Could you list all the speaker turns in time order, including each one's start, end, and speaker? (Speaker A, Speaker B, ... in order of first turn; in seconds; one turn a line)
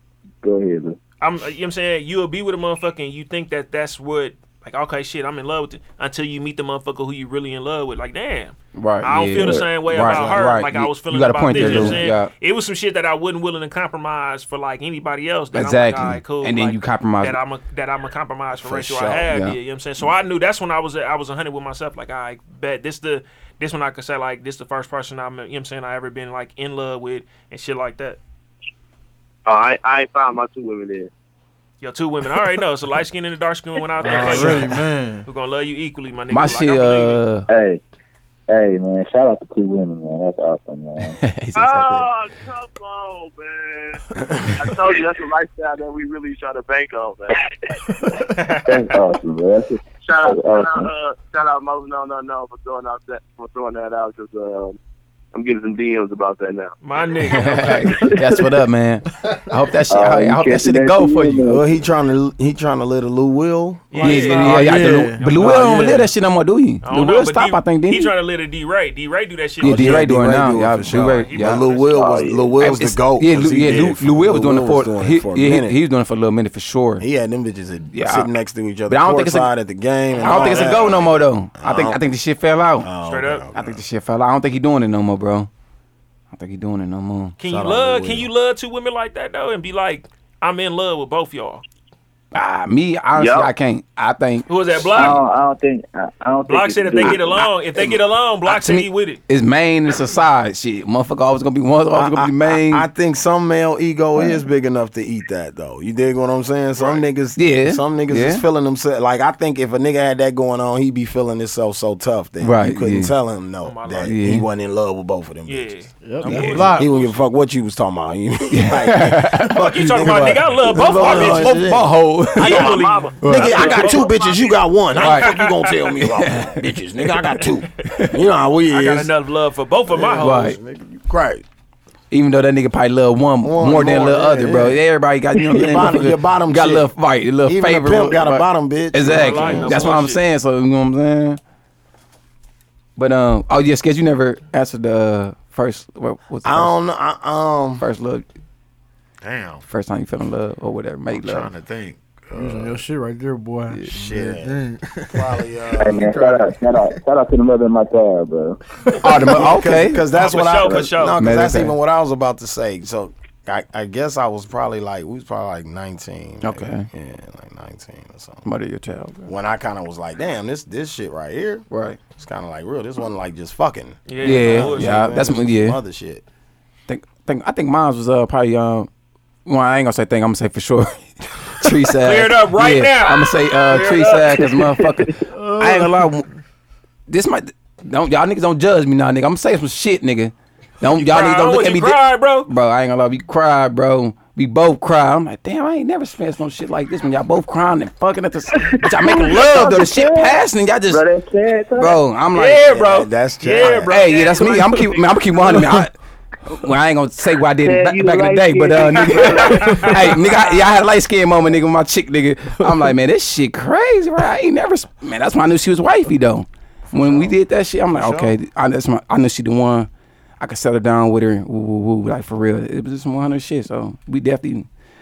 Speaker A: 0.4-1.0
Speaker B: 1.2-28.2
Speaker C: 8.7-12.3
Speaker D: 11.5-12.0
Speaker C: 15.5-17.4
Speaker D: 18.6-19.2
Speaker C: 18.8-19.6
Speaker E: 29.4-31.1
Speaker B: 31.8-37.2
Speaker F: 34.0-35.3
Speaker C: 36.3-37.5
Speaker A: 37.5-37.8
Speaker A: 38.5-41.2
Speaker C: 41.2-42.1
Speaker E: 41.5-47.5
Speaker B: 48.4-48.7
Speaker A: 48.6-50.9
Speaker E: 50.0-54.8
Speaker E: 55.3-56.7
Speaker B: 56.8-57.9
Speaker C: 57.2-61.5
Speaker A: 58.1-58.4
Speaker A: 59.9-61.7
Speaker D: 61.5-64.5
Speaker B: 63.9-66.1
Speaker C: 64.0-68.1
Speaker F: 64.3-66.1
Speaker B: 66.8-70.1
Speaker C: 69.6-71.6
Speaker D: 69.6-75.8
Speaker B: 70.9-72.2
Speaker A: 71.9-72.6
Speaker C: 72.6-77.0
Speaker D: 77.0-82.0
Speaker C: 77.9-78.3
Speaker C: 78.9-79.5
Speaker B: 80.2-81.1
Speaker C: 80.2-82.9
Speaker D: 82.8-83.8
Speaker B: 83.0-83.5
Speaker C: 83.5-85.5
Speaker C: 86.3-87.4
Speaker B: 87.4-91.6
Speaker D: 87.4-88.3
Speaker C: 92.3-94.5
Speaker E: 93.2-93.5
Speaker B: 94.5-95.2
Speaker A: 94.9-97.5
Speaker B: 96.5-99.2
Speaker C: 98.5-102.9
Speaker D: 101.9-122.0
Speaker B: 106.7-107.0
Speaker C: 107.3-108.4
Speaker C: 112.4-113.1
Speaker B: 113.6-114.1
Speaker C: 114.0-114.5
Speaker B: 115.5-117.2
Speaker F: 116.0-116.8
Speaker C: 116.2-116.8
Speaker C: 118.5-123.6
Speaker B: 119.6-121.6
Speaker E: 122.3-124.6
Speaker B: 122.4-124.2
Speaker D: 123.2-129.1
Speaker B: 124.9-126.0
Speaker C: 125.0-125.3
Speaker C: 126.1-127.1
Speaker C: 127.8-128.2
Speaker B: 128.7-130.6
Speaker D: 129.9-131.4
Speaker C: 130.2-130.6
Speaker C: 132.1-141.4
Speaker D: 133.4-134.8
Speaker D: 135.3-136.9
Speaker D: 137.4-139.9
Speaker B: 139.1-140.2
Speaker C: 143.0-146.7
Speaker D: 146.4-147.8
Speaker C: 147.8-148.2
Speaker D: 149.2-149.6
Speaker C: 149.7-151.5
Speaker D: 151.1-152.8
Speaker F: 152.3-155.2
Speaker D: 153.9-156.4
Speaker A: 155.8-158.6
Speaker C: 159.0-160.0
Speaker D: 159.0-168.4
Speaker B: 160.1-161.2
Speaker C: 161.2-161.8
Speaker C: 166.4-166.9
Speaker C: 168.4-169.3
Speaker D: 169.2-176.2
Speaker C: 171.7-172.0
Speaker B: 174.1-175.0
Speaker C: 174.2-175.8
Speaker C: 176.9-178.9
Speaker C: 179.4-186.2
Speaker B: 182.0-184.5
Speaker A: 184.6-185.1
Speaker F: 185.3-186.1
Speaker C: 187.1-201.0
Speaker B: 191.0-192.5
Speaker A: 198.6-202.0
Speaker C: 201.8-202.7
Speaker B: 202.3-205.7
Speaker D: 202.7-204.0
Speaker C: 203.9-205.9
Speaker C: 206.5-219.9
Speaker A: 207.6-210.2
Speaker B: 209.3-209.9
Speaker D: 216.9-217.3
Speaker D: 217.9-218.3
Speaker C: 220.4-224.7